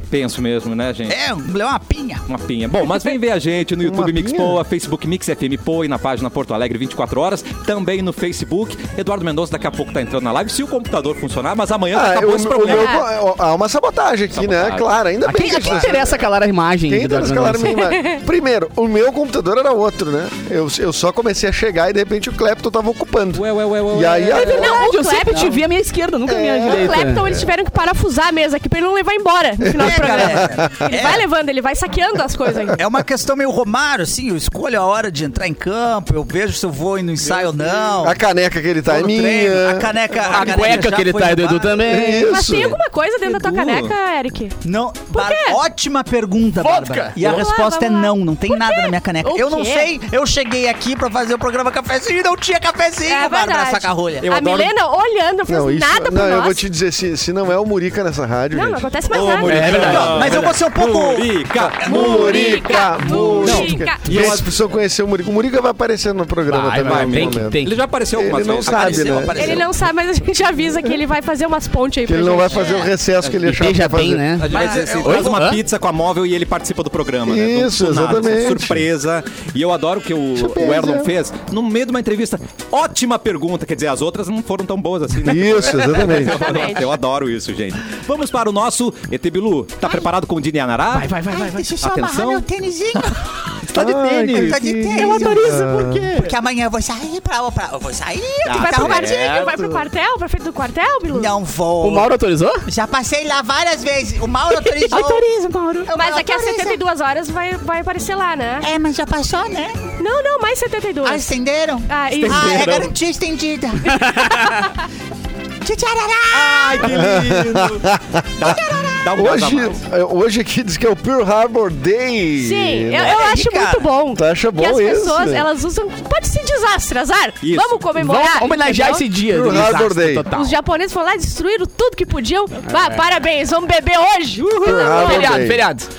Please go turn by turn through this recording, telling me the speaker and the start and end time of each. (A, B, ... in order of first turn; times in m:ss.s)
0:00.1-0:01.2 A
0:01.1-0:02.2 B
0:02.3-0:13.0 A
0:03.8-0:04.6 C
0:11.9-0:16.2 C
0:12.6-0:13.0 D
0:14.3-0:14.9 A
0:15.2-0:17.9 E
0:15.3-0:16.0 B
0:16.9-0:25.0 C
0:17.7-0:18.2 D
0:23.3-0:24.6 A
0:24.3-0:27.2 E
0:24.3-0:25.7 D
0:26.2-0:27.5 C
0:26.6-0:32.8 D
0:29.6-0:30.7 C
0:29.7-0:31.3 B
0:32.8-0:38.2 B
0:38.0-0:40.1 C
0:38.9-0:41.9 B
0:40.3-0:42.3 E
0:41.9-0:42.8 C
0:42.2-0:44.6 D
0:43.2-0:44.0 A
0:44.6-0:54.4 B
0:45.1-0:45.6 D
0:46.6-0:47.2 E
0:47.2-0:49.9 D
0:53.1-0:56.6 D
0:54.4-0:54.7 A
0:55.4-0:58.9 C
0:58.5-1:00.1 D
0:59.1-1:04.5 A
0:59.4-1:00.5 E
0:59.7-1:02.6 B
1:01.8-1:07.6 C
1:01.8-1:04.3 D
1:06.5-1:07.8 E
1:06.8-1:09.6 A
1:08.1-1:09.6 C
1:08.6-1:09.7 B
1:09.3-1:12.9 D
1:12.0-1:14.3 C
1:13.3-1:15.6 E
1:14.4-1:31.1 A
1:14.5-1:15.4 B
1:17.2-1:18.9 C
1:20.4-1:21.1 C
1:25.2-1:26.6 C
1:26.0-1:26.9 D
1:30.9-1:31.7 E
1:31.3-1:33.2 B
1:31.8-1:32.4 A
1:33.7-1:36.1 C
1:33.7-1:34.8 A
1:34.2-1:35.4 B
1:34.9-1:36.3 E
1:36.2-1:39.8 B
1:38.4-1:39.8 A
1:38.5-1:41.3 D
1:41.1-1:42.1 B
1:41.8-1:42.6 E
1:42.7-1:45.2 B
1:44.5-1:45.2 D
1:44.9-1:45.9 E
1:45.9-1:46.8 B
1:45.9-1:48.7 D
1:48.6-1:49.8 B
1:50.0-1:51.3 D
1:51.0-1:54.1 B
1:51.9-1:52.8 D
1:52.2-1:52.9 A
1:53.9-1:54.8 D
1:53.9-1:54.5 E
1:55.6-1:56.9 B
1:56.3-1:59.8 A
1:56.8-2:03.2 C
2:02.4-2:09.1 D
2:03.0-2:03.9 B
2:04.1-2:05.5 C
2:07.4-2:07.9 A
2:07.9-2:10.6 E
2:09.3-2:10.3 C
2:10.3-2:15.5 D
2:12.7-2:13.0 E
2:14.6-2:15.7 C
2:14.6-2:15.9 E